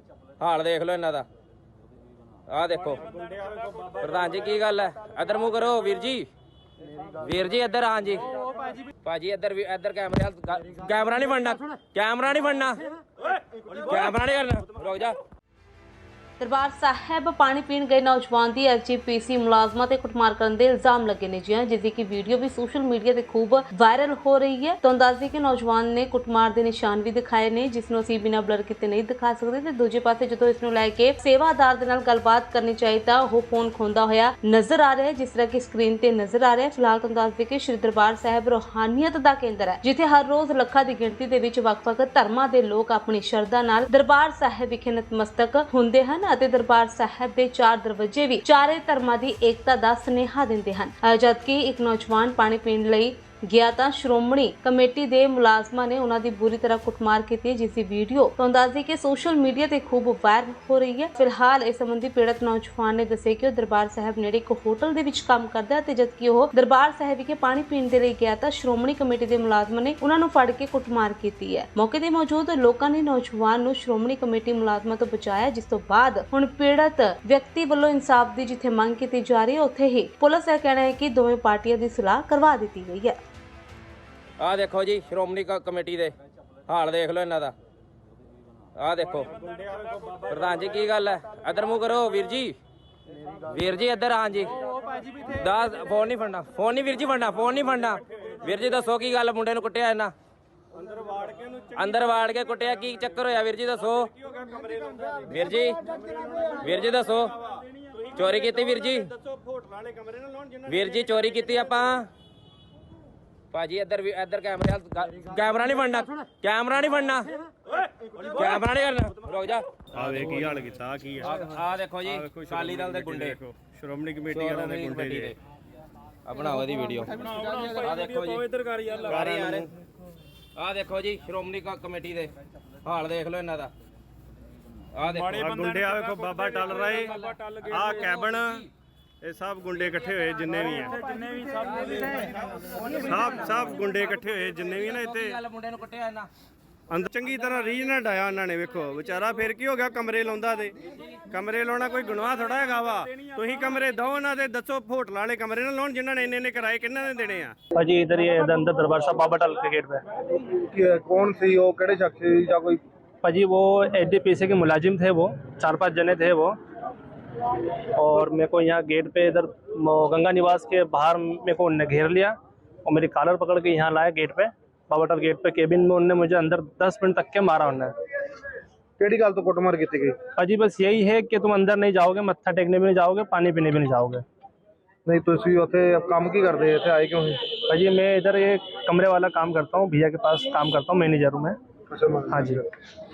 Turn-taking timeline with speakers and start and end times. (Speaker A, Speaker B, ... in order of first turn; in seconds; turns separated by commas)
Speaker A: 0.4-1.3, Speaker A: 2.5-3.0, Speaker A: 4.0-6.3, Speaker A: 7.2-8.3, Speaker A: 9.0-12.8, Speaker A: 13.7-15.2, Speaker B: 16.4-83.2, Speaker A: 84.4-86.1, Speaker A: 86.7-87.5, Speaker A: 88.8-89.3, Speaker A: 90.3-92.5, Speaker A: 93.5-94.5, Speaker A: 95.2-100.1, Speaker C: 100.8-101.9, Speaker A: 101.7-104.1, Speaker C: 104.1-105.2, Speaker A: 105.3-105.8, Speaker A: 106.5-107.3, Speaker A: 108.1-109.1, Speaker C: 109.2-111.0, Speaker A: 110.7-112.1, Speaker A: 113.5-117.3, Speaker A: 118.3-120.4, Speaker C: 119.9-121.4, Speaker A: 121.2-123.4, Speaker C: 122.1-125.3, Speaker A: 124.3-125.3, Speaker A: 126.2-129.7, Speaker C: 127.5-129.7, Speaker A: 130.5-132.3, Speaker A: 132.8-133.7, Speaker A: 134.9-135.6, Speaker C: 135.2-138.6, Speaker A: 137.1-138.7, Speaker C: 139.2-140.9, Speaker A: 141.5-143.5, Speaker C: 142.9-145.4, Speaker A: 144.7-146.3, Speaker C: 146.9-150.7, Speaker C: 151.3-157.5, Speaker D: 157.8-160.0, Speaker E: 160.4-162.8, Speaker D: 163.2-166.6, Speaker D: 167.9-177.9, Speaker E: 179.0-180.2, Speaker D: 180.4-184.2, Speaker E: 185.0-187.5, Speaker D: 187.7-191.6, Speaker E: 191.9-192.7, Speaker D: 192.3-192.6